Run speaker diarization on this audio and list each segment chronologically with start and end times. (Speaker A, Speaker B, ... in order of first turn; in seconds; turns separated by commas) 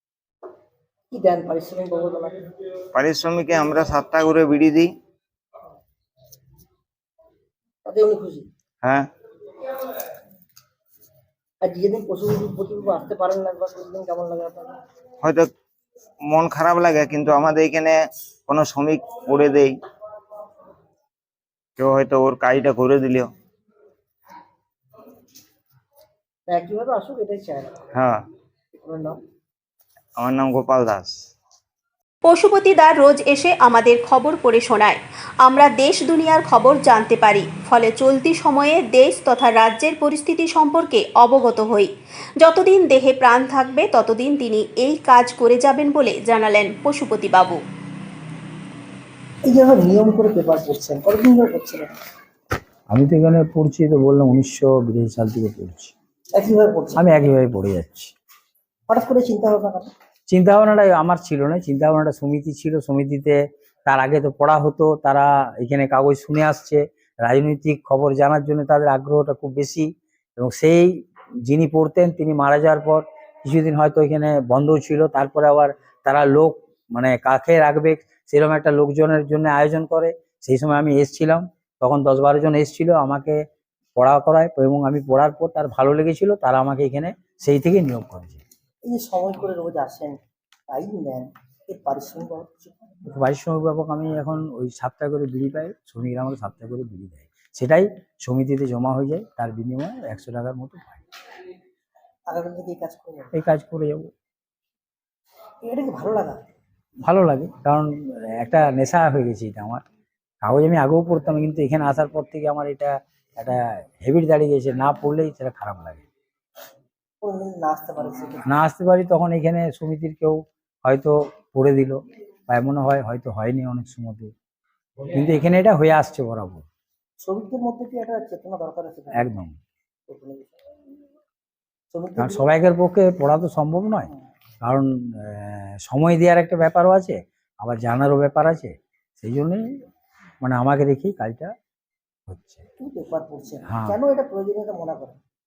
Speaker A: 1.1-2.4, Speaker B: 2.9-4.9, Speaker A: 7.8-8.5, Speaker B: 8.8-9.1, Speaker A: 11.6-14.8, Speaker B: 15.2-15.5, Speaker B: 16.3-18.0, Speaker B: 18.5-19.8, Speaker B: 21.8-23.3, Speaker A: 26.5-27.8, Speaker B: 27.9-28.2, Speaker A: 28.7-29.2, Speaker B: 30.2-31.1, Speaker C: 32.2-47.6, Speaker A: 49.4-51.9, Speaker D: 52.9-55.9, Speaker A: 56.3-57.0, Speaker D: 57.0-58.1, Speaker A: 58.9-59.9, Speaker D: 60.3-83.4, Speaker D: 84.0-88.4, Speaker A: 88.8-90.2, Speaker A: 90.7-93.0, Speaker D: 93.1-101.0, Speaker A: 102.3-103.3, Speaker D: 103.3-104.1, Speaker A: 105.6-106.4, Speaker D: 107.0-109.8, Speaker D: 110.4-116.0, Speaker A: 117.2-118.5, Speaker D: 118.5-124.3, Speaker D: 125.1-126.7, Speaker A: 127.2-129.3, Speaker D: 129.1-129.5, Speaker A: 130.1-130.5, Speaker A: 131.9-132.5, Speaker D: 132.2-134.1, Speaker D: 134.6-139.7, Speaker D: 140.4-141.5, Speaker D: 142.3-142.7, Speaker A: 142.8-145.2, Speaker D: 143.7-144.0